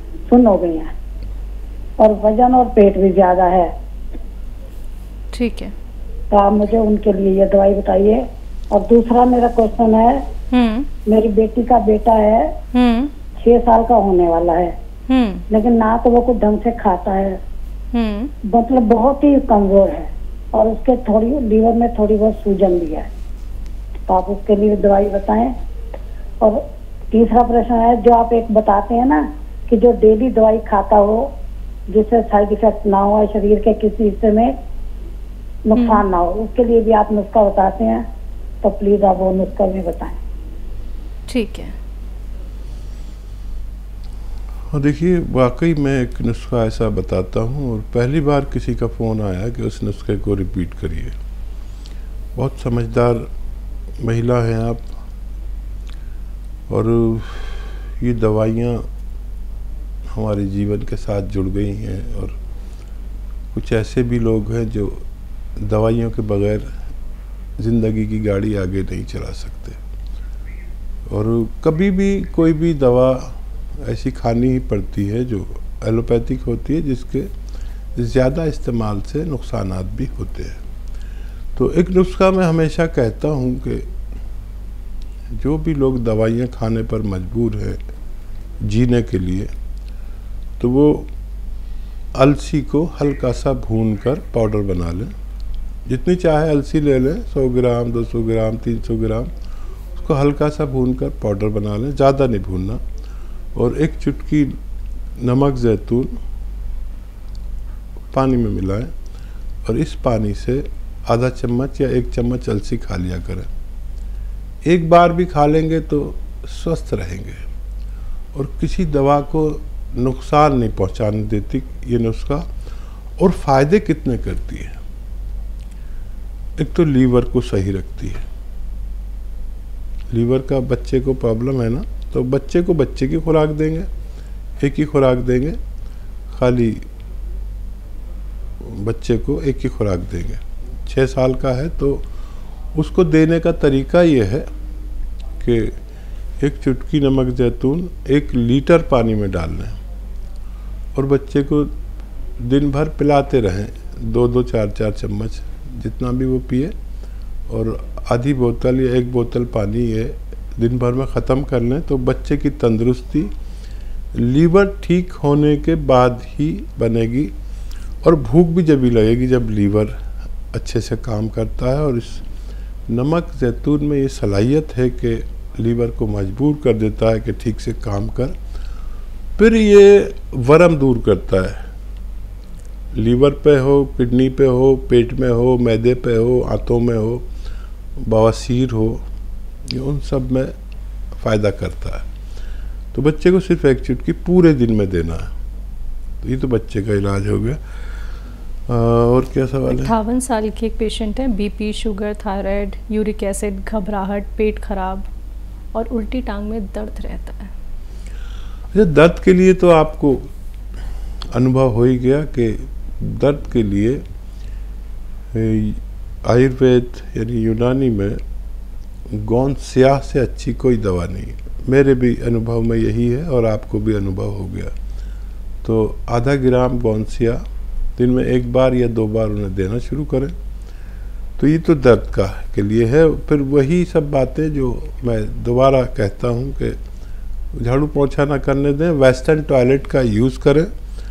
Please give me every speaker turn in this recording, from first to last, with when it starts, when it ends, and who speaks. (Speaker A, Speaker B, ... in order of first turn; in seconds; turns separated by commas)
Speaker A: 0.3-0.9, Speaker A: 2.0-3.7, Speaker B: 5.3-5.7, Speaker A: 6.3-10.2, Speaker B: 10.5-10.9, Speaker A: 11.1-12.5, Speaker B: 12.7-13.1, Speaker A: 13.4-14.8, Speaker B: 15.1-15.4, Speaker A: 15.5-17.4, Speaker B: 17.9-18.3, Speaker A: 18.5-23.1, Speaker A: 24.1-25.5, Speaker A: 26.4-31.3, Speaker A: 31.9-34.5, Speaker A: 35.7-38.0, Speaker B: 35.8-36.0, Speaker A: 38.6-40.2, Speaker B: 41.3-41.8, Speaker C: 44.7-51.1, Speaker C: 52.4-53.3, Speaker C: 54.0-54.9, Speaker C: 56.7-58.9, Speaker C: 60.1-62.4, Speaker C: 63.5-65.0, Speaker C: 65.6-66.7, Speaker C: 67.6-69.8, Speaker C: 71.1-77.3, Speaker C: 78.0-80.6, Speaker C: 81.6-83.9, Speaker C: 85.3-87.8, Speaker C: 88.6-89.5, Speaker C: 90.6-91.1, Speaker C: 92.2-95.1, Speaker C: 95.9-99.3, Speaker C: 100.0-102.8, Speaker C: 103.5-104.5, Speaker C: 105.2-106.1, Speaker C: 108.1-108.9, Speaker C: 109.7-113.5, Speaker C: 114.7-117.4, Speaker C: 118.3-122.5, Speaker C: 123.2-124.8, Speaker C: 126.6-128.2, Speaker C: 130.1-133.9, Speaker C: 134.6-135.6, Speaker C: 136.3-136.8, Speaker C: 138.6-142.1, Speaker C: 142.8-144.5, Speaker C: 145.4-145.7, Speaker C: 146.4-149.8, Speaker C: 150.9-151.7, Speaker C: 152.4-156.7, Speaker C: 157.5-163.3, Speaker C: 164.2-167.3, Speaker C: 168.0-170.0, Speaker C: 170.5-172.2, Speaker C: 172.9-178.4, Speaker C: 179.4-181.6, Speaker C: 182.9-187.3, Speaker C: 188.0-189.0, Speaker C: 189.7-190.5, Speaker C: 191.2-192.1, Speaker C: 192.9-195.3, Speaker C: 196.2-197.6, Speaker C: 198.7-199.9, Speaker B: 199.7-205.1, Speaker B: 205.7-207.5, Speaker C: 208.7-210.3, Speaker C: 211.3-214.0, Speaker C: 215.3-218.2, Speaker C: 219.1-224.7, Speaker C: 225.6-227.4, Speaker C: 228.0-230.3, Speaker C: 231.4-236.8, Speaker C: 237.6-240.7